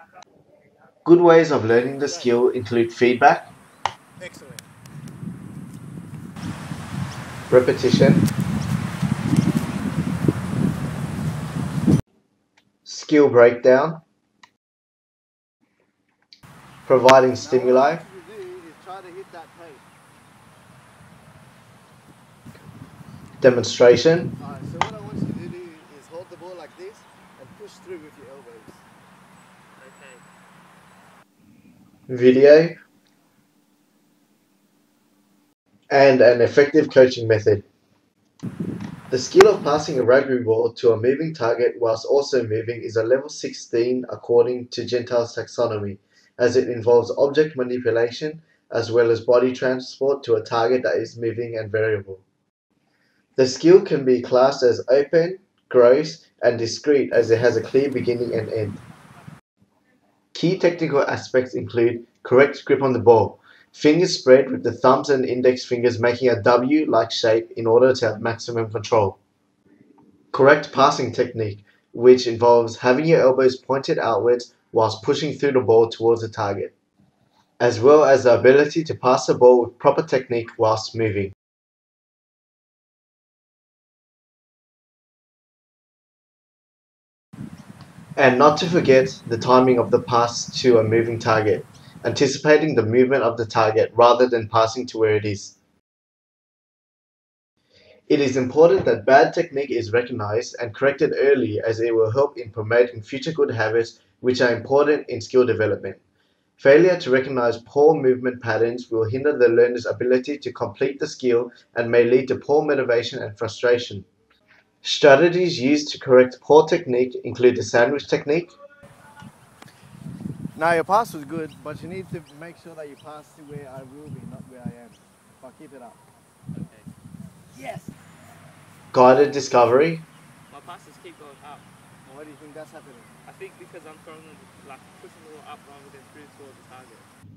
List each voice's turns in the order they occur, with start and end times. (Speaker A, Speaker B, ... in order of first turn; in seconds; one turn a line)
Speaker A: 1.0-3.5
Speaker B: 4.2-4.6
Speaker A: 7.5-8.2
Speaker A: 12.8-14.0
Speaker A: 16.9-18.0
Speaker B: 17.4-19.8
Speaker A: 23.4-24.3
Speaker B: 24.4-28.8
Speaker C: 29.8-30.2
Speaker A: 32.1-32.8
Speaker A: 35.9-37.6
Speaker A: 39.1-52.2
Speaker A: 53.4-58.8
Speaker A: 60.3-69.2
Speaker A: 70.3-76.7
Speaker A: 77.6-81.3
Speaker A: 88.2-95.5
Speaker A: 98.1-106.0
Speaker A: 106.6-114.1
Speaker A: 114.8-118.5
Speaker B: 120.5-126.0
Speaker C: 126.5-126.8
Speaker B: 127.5-127.9
Speaker A: 128.9-130.0
Speaker C: 130.5-131.6
Speaker B: 132.1-133.1
Speaker C: 133.3-137.0